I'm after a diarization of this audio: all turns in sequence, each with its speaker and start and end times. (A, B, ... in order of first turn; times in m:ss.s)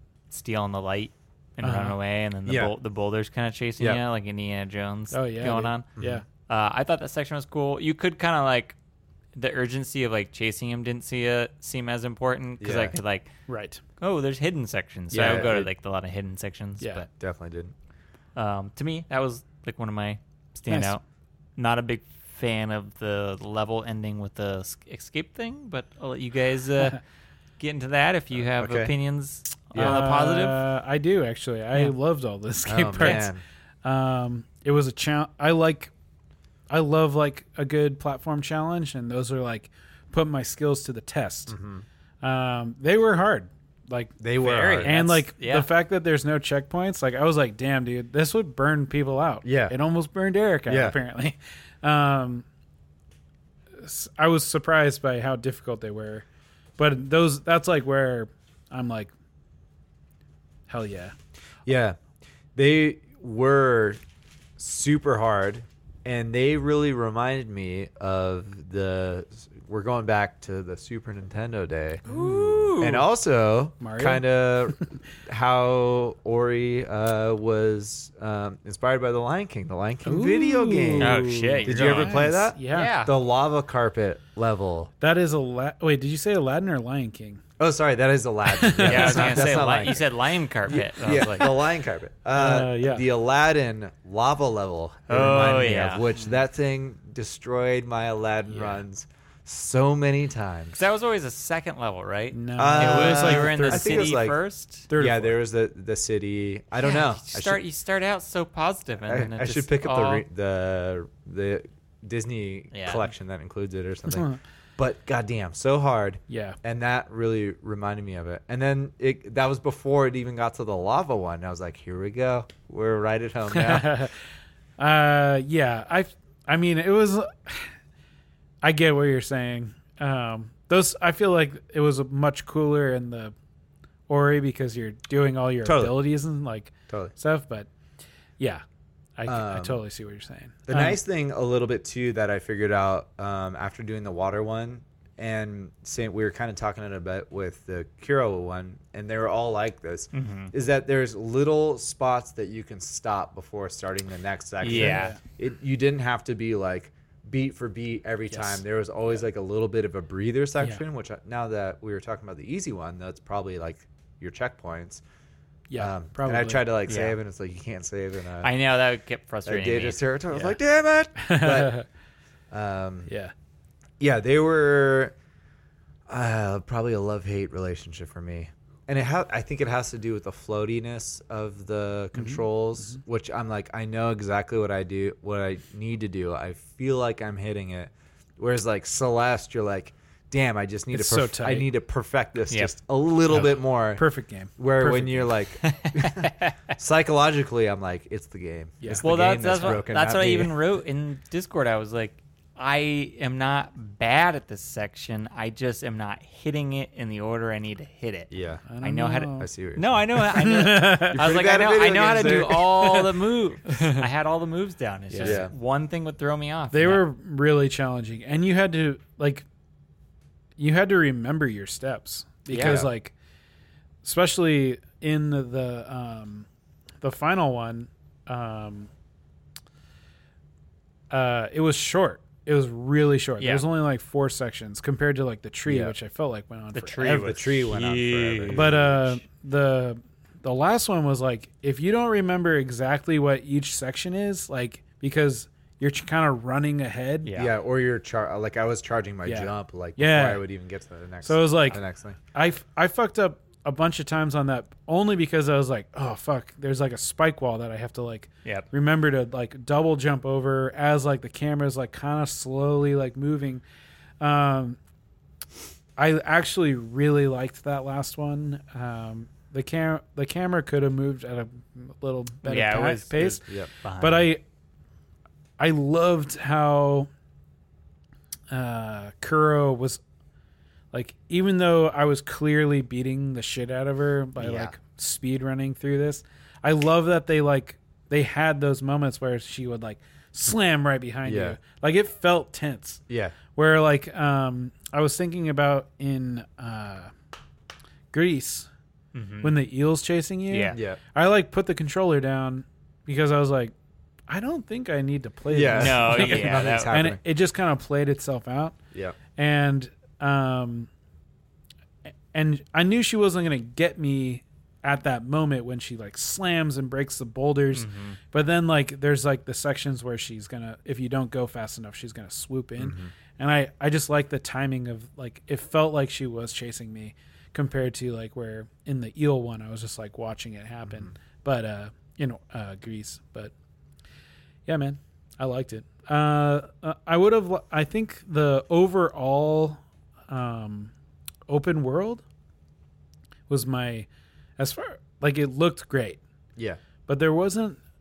0:00.3-0:08.8 A
0:01.6-0:02.0 B
0:02.5-0:02.7 C
0:05.1-0:06.2 B
0:06.0-0:06.2 C
0:09.4-0:13.3 A
0:12.6-0:13.0 C
0:13.5-0:13.8 B
0:14.0-0:17.1 A
0:15.1-0:15.7 C
0:16.8-0:17.1 B
0:17.2-0:17.7 C
0:18.4-0:21.0 A
0:20.7-0:21.0 B
0:21.6-0:27.0 A
0:27.6-0:30.6 A
0:28.4-0:28.9 C
0:29.7-0:30.1 C
0:29.8-0:33.3 B
0:32.7-0:33.4 C
0:33.8-0:35.9 B
0:36.7-0:41.6 B
0:41.5-0:41.8 C
0:42.2-0:44.2 B
0:44.2-0:45.2 C
0:44.4-0:45.7 A
0:44.7-0:52.5 B
0:49.4-0:49.7 C
0:50.7-0:51.0 C
0:53.8-0:56.2 B
0:56.8-0:59.1 B
1:00.7-1:01.1 B
1:01.7-1:02.0 C
1:02.6-1:04.0 C
1:04.6-1:12.1 C
1:12.1-1:13.1 A
1:12.1-1:12.7 B
1:12.8-1:24.9 C
1:13.8-1:14.2 B
1:20.0-1:23.0 B
1:21.0-1:23.1 A
1:25.0-1:27.4 B
1:27.6-1:30.1 C
1:28.5-1:29.6 B
1:28.8-1:31.6 A
1:30.7-1:40.8 C
1:32.4-1:33.1 B
1:35.1-1:36.2 A
1:38.5-1:38.8 B
1:40.8-1:44.9 A
1:42.3-1:44.2 B
1:42.6-1:44.4 C
1:44.9-1:45.3 B
1:45.0-1:47.6 C
1:46.8-1:50.2 A
1:49.1-2:04.0 C
1:52.7-1:53.0 A
1:56.3-1:56.6 B
2:03.5-2:04.2 B
2:04.8-2:07.7 B
2:08.6-2:13.3 B
2:14.1-2:17.7 B
2:15.6-2:16.0 C
2:16.9-2:17.1 C
2:19.2-2:21.0 B
2:19.3-2:19.8 C
2:20.7-2:45.0 C
2:30.1-2:30.5 A
2:34.6-2:35.2 A
2:34.7-2:35.2 B
2:38.3-2:38.6 B
2:45.7-2:46.7 B
2:45.8-2:48.5 C
2:46.9-2:47.2 A
2:48.4-2:50.6 A
2:49.5-2:51.8 C
2:51.2-2:51.8 B
2:52.5-2:53.1 C
2:53.1-2:53.3 B
2:54.0-2:55.2 C
2:56.1-3:14.0 C
3:02.2-3:03.0 B
3:10.9-3:11.7 B
3:13.3-3:15.3 B
3:14.6-3:20.5 C
3:15.6-3:16.6 A
3:18.8-3:19.1 B
3:19.0-3:37.0 A
3:28.3-3:28.6 C
3:28.7-3:29.5 B
3:29.4-3:33.0 C
3:30.2-3:31.2 B
3:35.1-3:35.4 B
3:35.2-3:35.5 C
3:36.7-3:39.4 B
3:40.6-3:43.1 B
3:42.5-3:42.8 A
3:42.6-3:42.9 C
3:44.0-3:46.5 B
3:47.0-3:48.9 B
3:51.1-3:57.4 B
3:53.4-3:53.6 A
3:55.7-3:56.0 C
3:56.8-3:58.7 A
3:57.0-3:59.2 C
3:58.5-4:07.3 B
4:07.2-4:07.5 A
4:07.4-4:12.2 C
4:09.2-4:10.4 B
4:11.2-4:11.8 B
4:12.3-4:23.6 B
4:24.2-4:24.8 B
4:26.0-4:33.4 B
4:32.4-4:34.3 A
4:34.0-4:34.4 B
4:35.6-4:37.1 B
4:38.5-4:40.0 B
4:40.9-4:53.0 B
4:44.4-4:44.7 A
4:51.2-4:51.6 C
4:53.1-4:53.4 C
4:53.6-4:57.1 B
4:58.1-4:58.7 B
4:59.1-4:59.6 A
4:59.4-5:03.7 B
5:00.5-5:00.8 A
5:00.7-5:01.0 C
5:04.3-5:08.8 B
5:05.5-5:07.2 C
5:05.8-5:06.9 A
5:09.4-5:10.9 B
5:12.3-5:33.5 B
5:17.8-5:18.2 A
5:22.8-5:23.1 C
5:34.7-5:40.9 B
5:41.5-5:42.2 B
5:43.5-5:46.2 B
5:47.1-5:47.8 B